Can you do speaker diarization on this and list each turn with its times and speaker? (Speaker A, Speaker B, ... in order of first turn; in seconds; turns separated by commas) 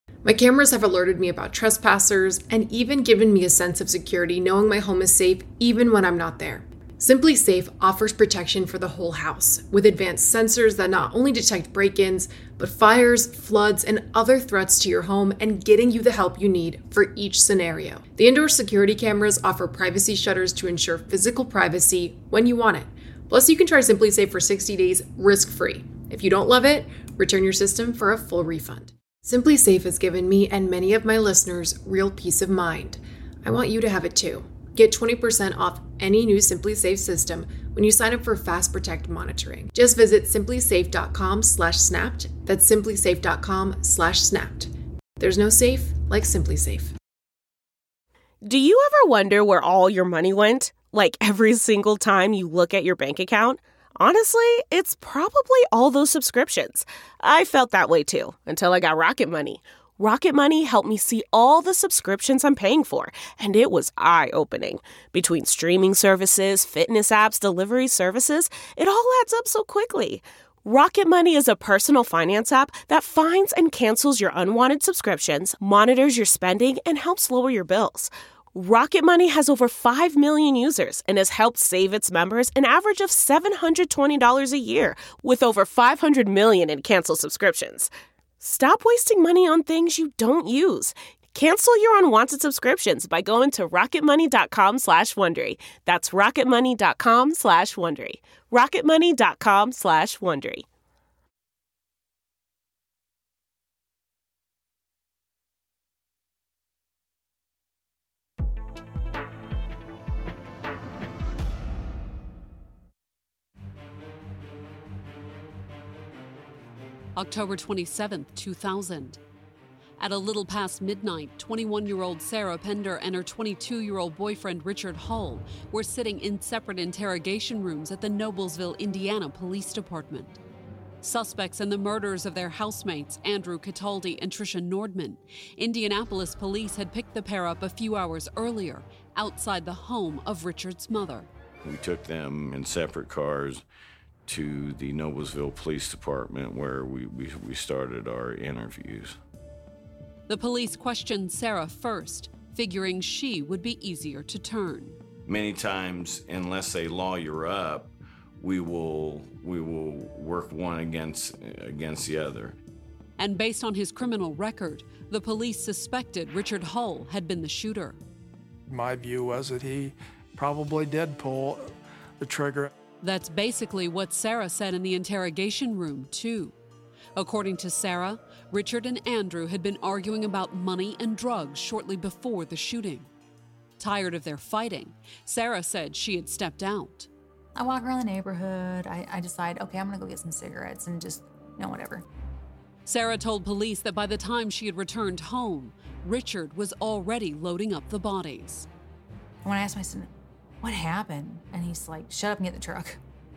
Speaker A: 0.2-46.9, Speaker B: 48.4-100.7, Speaker C: 117.2-119.2, Speaker C: 120.0-130.4, Speaker C: 131.0-141.3, Speaker D: 141.6-143.6, Speaker D: 144.2-149.2, Speaker C: 150.3-155.0, Speaker D: 155.2-162.6, Speaker C: 163.2-168.0, Speaker E: 168.7-172.7, Speaker C: 173.0-176.5, Speaker C: 177.2-183.1, Speaker C: 183.8-187.1, Speaker F: 187.5-192.0, Speaker C: 192.8-198.7, Speaker F: 199.4-200.1, Speaker F: 200.6-203.0